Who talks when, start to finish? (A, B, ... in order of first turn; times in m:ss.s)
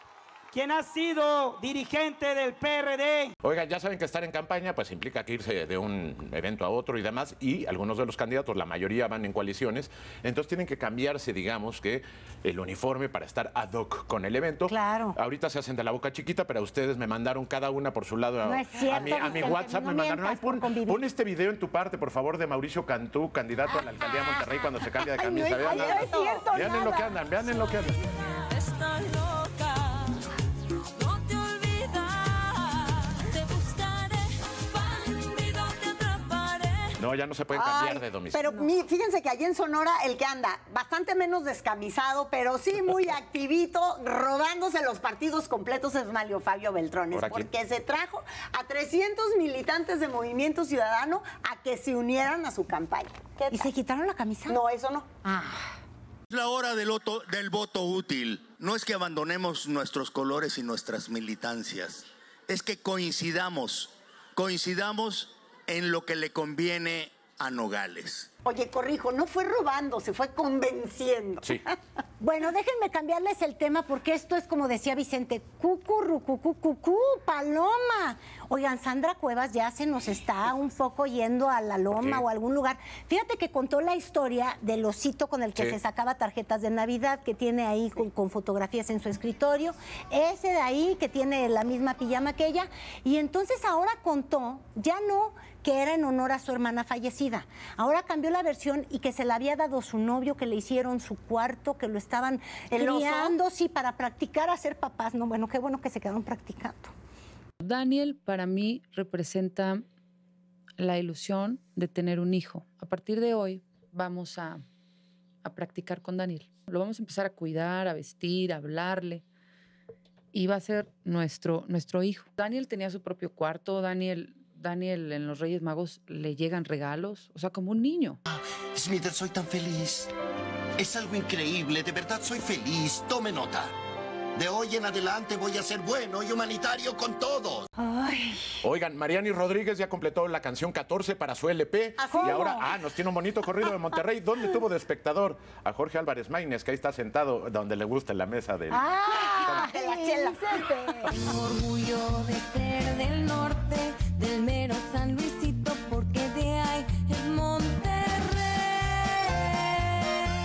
0:00.5-0:03.3 A
0:03.4-0:26.0 B
0:14.7-0:15.2 C
0:18.4-0:21.0 C
0:25.1-0:26.5 D
0:25.6-0:27.2 C
0:26.5-0:28.0 B
0:28.5-0:30.1 E
0:31.0-0:36.9 E
0:37.0-0:38.5 B
0:37.5-0:53.7 D
0:47.1-0:47.5 B
0:53.5-0:54.6 C
0:54.5-0:55.1 D
0:55.2-0:55.7 C
0:56.3-1:08.3 F
1:08.4-1:11.7 D
1:12.2-1:46.9 C
1:21.9-1:22.2 B
1:42.7-1:43.4 D
1:47.6-1:49.8 G
1:50.8-1:54.6 G
1:55.4-1:59.2 G
2:00.3-2:08.2 G
2:08.8-2:10.1 H
2:10.8-2:13.7 H
2:14.4-2:17.6 H
2:17.8-2:18.6 C
2:18.6-2:28.8 B
2:22.0-2:22.7 D
2:22.1-2:22.4 C
2:28.7-2:31.1 C
2:29.1-2:30.9 D
2:29.4-2:29.7 B
2:31.2-2:39.0 E